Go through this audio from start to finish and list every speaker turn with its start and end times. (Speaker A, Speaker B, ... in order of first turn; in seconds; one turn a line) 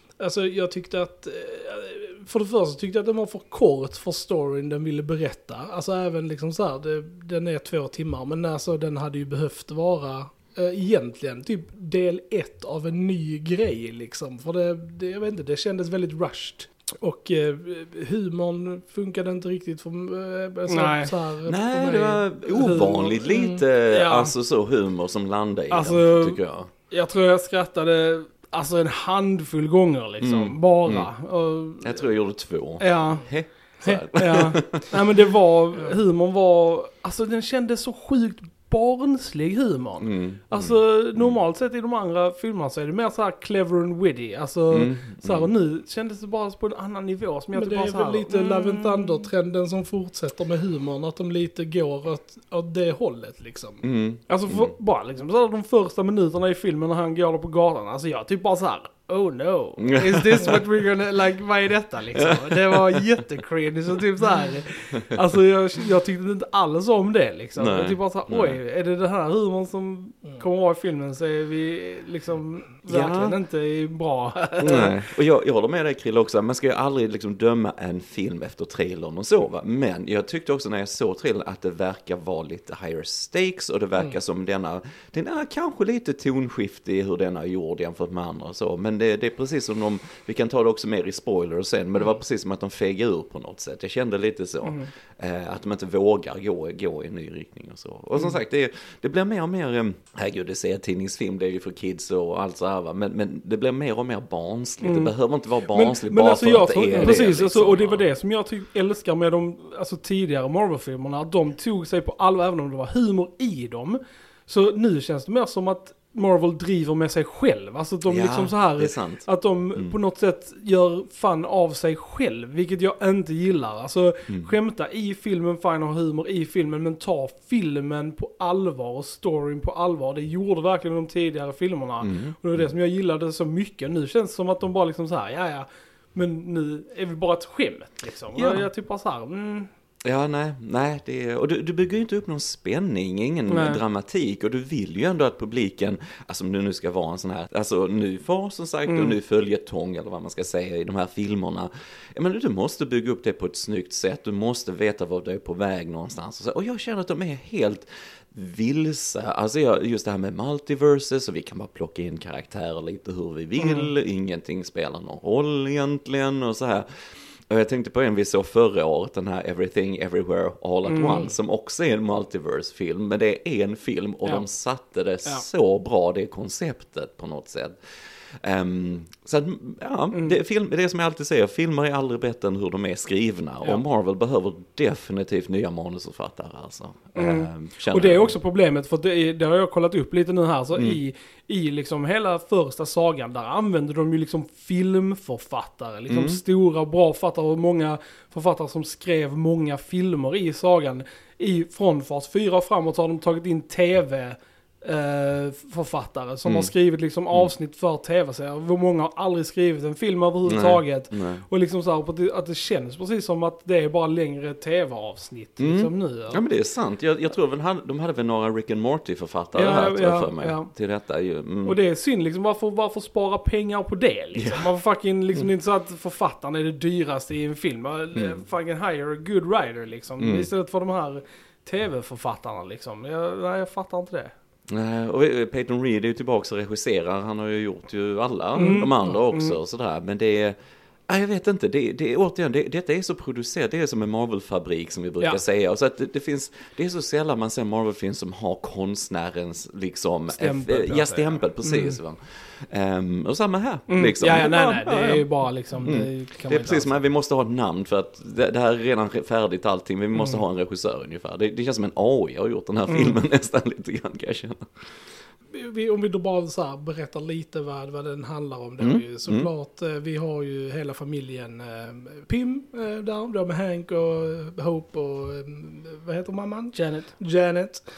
Speaker A: 0.2-22.1
Speaker B: 20.7-21.1
Speaker C: 21.4-26.7
Speaker B: 21.8-24.3
Speaker B: 25.7-32.0
Speaker C: 30.2-31.1
Speaker C: 31.8-35.0
Speaker B: 32.8-33.3
Speaker B: 33.9-49.3
Speaker C: 40.0-41.4
Speaker C: 44.7-45.5
Speaker A: 47.5-53.8
Speaker C: 53.8-54.7
Speaker B: 54.3-75.0
Speaker C: 59.8-60.7
Speaker C: 62.1-63.1
Speaker C: 67.6-68.6
Speaker C: 72.9-73.4
Speaker C: 74.6-108.1
Speaker B: 94.6-94.9
Speaker B: 104.8-105.1
Speaker B: 105.7-139.7
Speaker C: 118.0-120.0
Speaker C: 124.3-124.5
Speaker C: 132.0-132.7
Speaker C: 138.3-138.7
Speaker C: 140.0-177.8
Speaker B: 143.5-143.8
Speaker B: 148.9-149.2
Speaker B: 163.6-163.8
Speaker B: 170.8-171.2
Speaker C: 178.4-188.3
Speaker B: 187.1-216.4
Speaker C: 190.7-191.0
Speaker C: 196.1-196.4
Speaker C: 206.4-206.7
Speaker C: 210.4-211.4
Speaker C: 215.6-221.8
Speaker B: 219.5-220.7
Speaker B: 221.6-234.3
Speaker C: 224.3-224.7
Speaker C: 228.1-228.4
Speaker C: 230.2-230.5
Speaker C: 234.7-240.6
Speaker B: 238.6-239.6
Speaker C: 241.1-255.3
Speaker B: 250.3-252.0
Speaker B: 253.9-257.0
Speaker C: 255.8-264.7
Speaker B: 262.9-263.2
Speaker A: 265.5-277.8
Speaker C: 268.8-269.5
Speaker B: 276.7-277.1